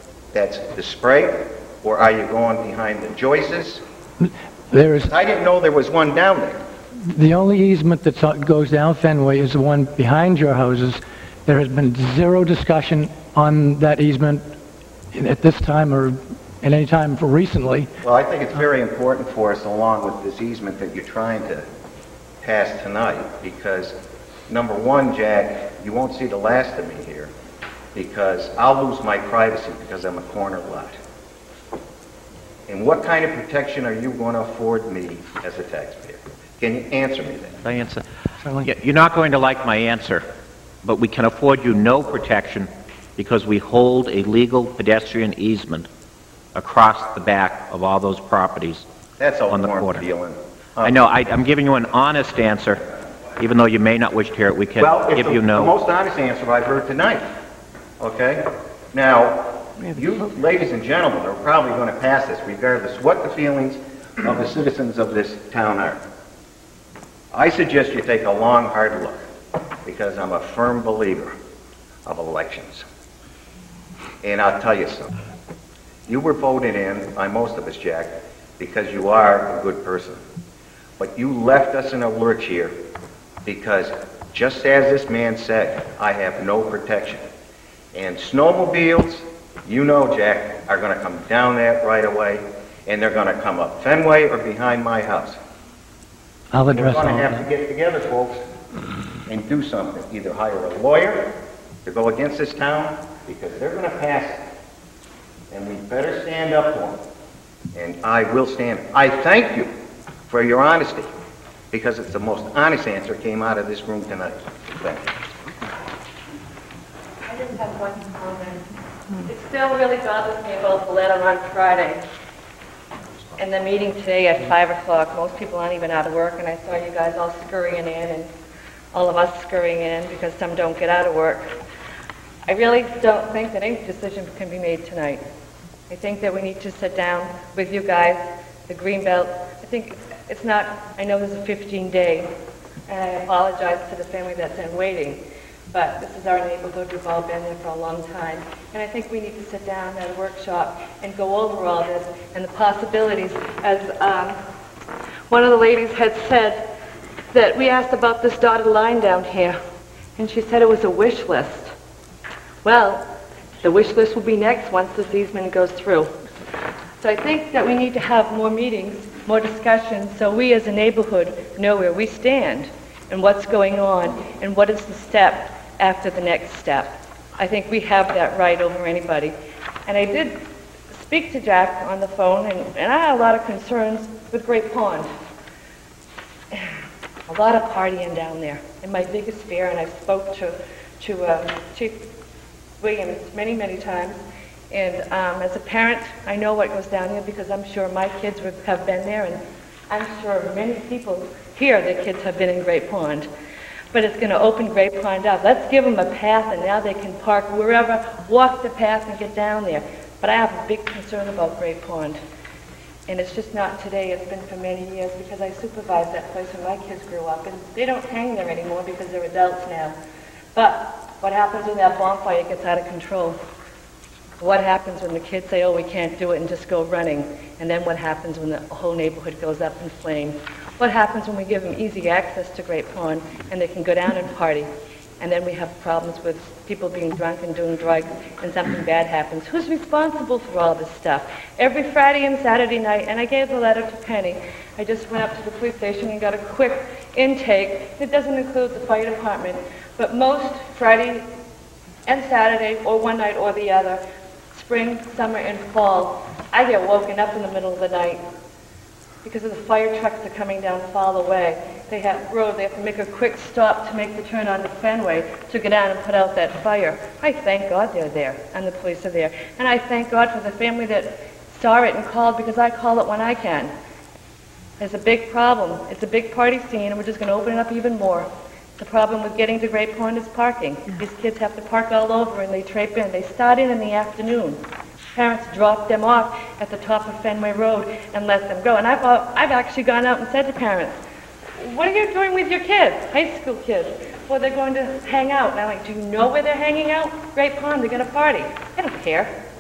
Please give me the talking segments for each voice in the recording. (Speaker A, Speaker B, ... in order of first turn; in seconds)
Speaker A: 0.3-3.8, 5.0-6.6, 18.0-21.7, 22.4-24.0, 24.5-27.3, 27.9-31.0, 32.7-37.6, 49.2-51.0, 54.8-57.3, 58.0-66.0, 67.3-69.2, 69.8-71.3, 72.1-72.8, 74.2-75.1, 76.1-80.2, 81.0-82.7, 83.5-87.2, 87.9-95.4, 96.7-98.4, 99.3-101.3, 101.8-104.4, 105.5-107.0, 107.7-109.7, 110.3-111.1, 111.7-115.1
Speaker B: 4.2-5.1, 7.0-14.6, 15.1-17.9, 96.5-97.5
Speaker C: 37.6-38.1, 38.6-40.3, 40.8-45.9, 46.5-48.9, 49.5-50.0, 50.8-52.8, 53.4-55.7
Speaker D: 117.3-118.7, 119.2-122.0, 123.4-128.3, 128.9-131.6, 132.5-135.2, 135.9-142.3, 142.9-154.4, 155.3-156.7, 157.3-159.6, 160.2-161.7, 162.6-163.1, 163.6-166.1, 167.0-179.3, 179.9-180.4, 180.9-185.1, 187.3-192.0, 192.8-194.2, 194.7-203.3, 203.9-212.2, 213.1-220.0, 220.6-223.4, 224.4-251.3, 252.1-254.0, 254.5-258.2, 259.2-273.7, 274.8-284.6, 285.1-291.0, 291.6-299.3